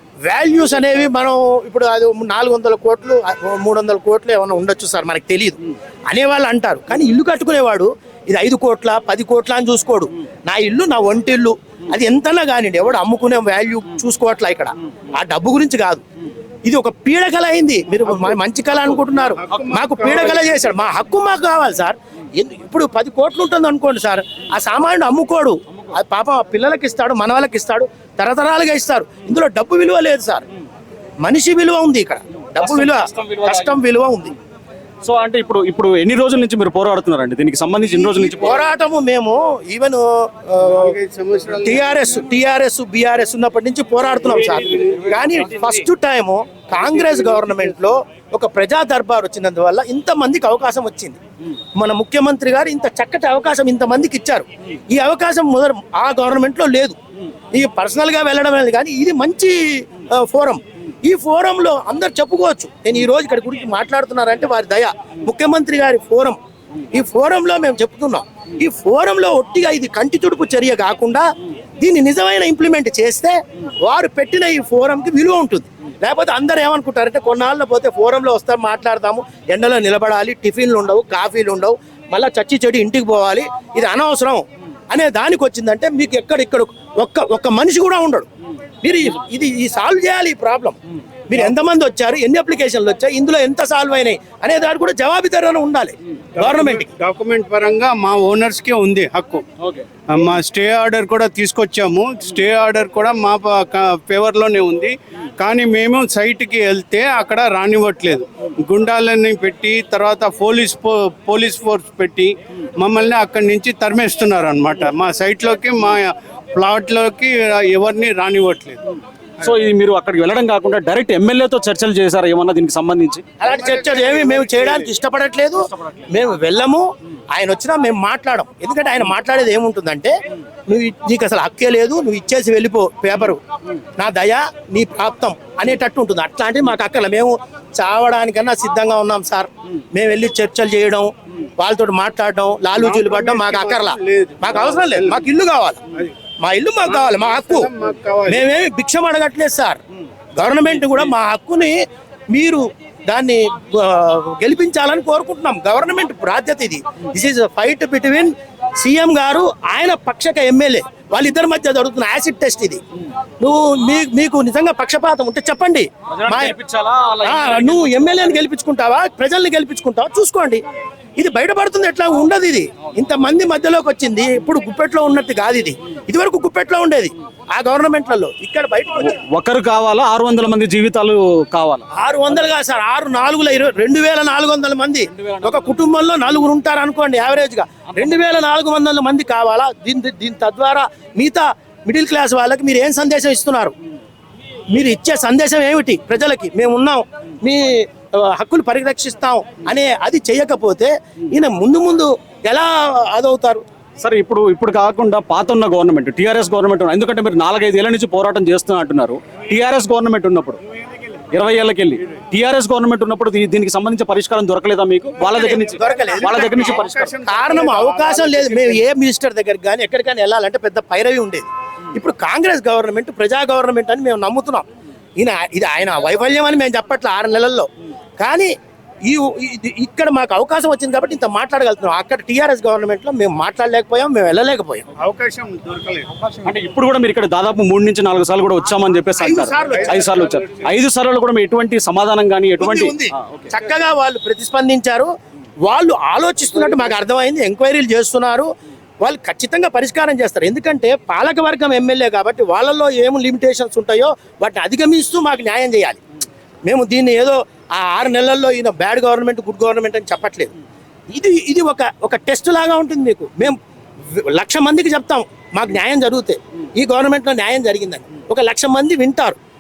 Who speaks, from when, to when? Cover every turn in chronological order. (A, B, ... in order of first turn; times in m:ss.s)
0:00.3-0:05.6 A
0:06.1-0:16.0 A
0:16.7-0:30.4 A
0:19.4-0:20.6 B
0:31.2-0:34.4 A
0:32.6-0:33.7 C
0:35.0-0:38.6 C
0:37.9-0:40.9 A
0:40.6-0:42.0 B
0:41.6-0:51.2 A
0:44.5-0:45.1 B
0:51.8-0:57.0 A
0:57.5-1:06.4 A
1:06.9-1:11.3 A
1:11.8-1:28.3 A
1:28.8-1:30.8 A
1:31.3-1:36.9 A
1:36.4-1:39.4 B
1:40.1-1:58.8 B
1:59.4-2:03.2 C
2:03.4-2:10.2 A
2:03.5-2:04.8 B
2:10.7-2:13.4 A
2:14.0-2:25.8 A
2:22.8-2:25.2 B
2:26.4-2:27.7 A
2:26.9-2:28.4 B
2:28.3-2:29.8 A
2:30.4-2:31.8 A
2:32.3-2:42.8 A
2:43.4-2:46.5 A
2:46.1-2:48.4 C
2:47.2-2:50.6 A
2:51.2-2:59.2 A
2:59.0-3:01.9 C
3:02.0-3:13.7 A
3:05.1-3:05.8 C
3:14.7-3:23.6 A
3:24.0-3:30.6 C
3:31.3-3:37.1 C
3:35.2-3:44.6 A
3:35.8-3:38.8 B
3:45.2-3:47.7 A
3:48.2-3:48.5 A
3:49.1-3:54.9 A
3:55.0-3:56.4 B
3:56.4-4:03.5 C
3:59.2-4:00.3 A
3:59.7-4:00.6 B
4:02.6-4:05.1 A
4:05.7-4:08.5 A
4:09.0-4:16.0 A
4:16.7-4:20.5 A
4:21.1-4:23.6 A
4:24.1-4:29.4 A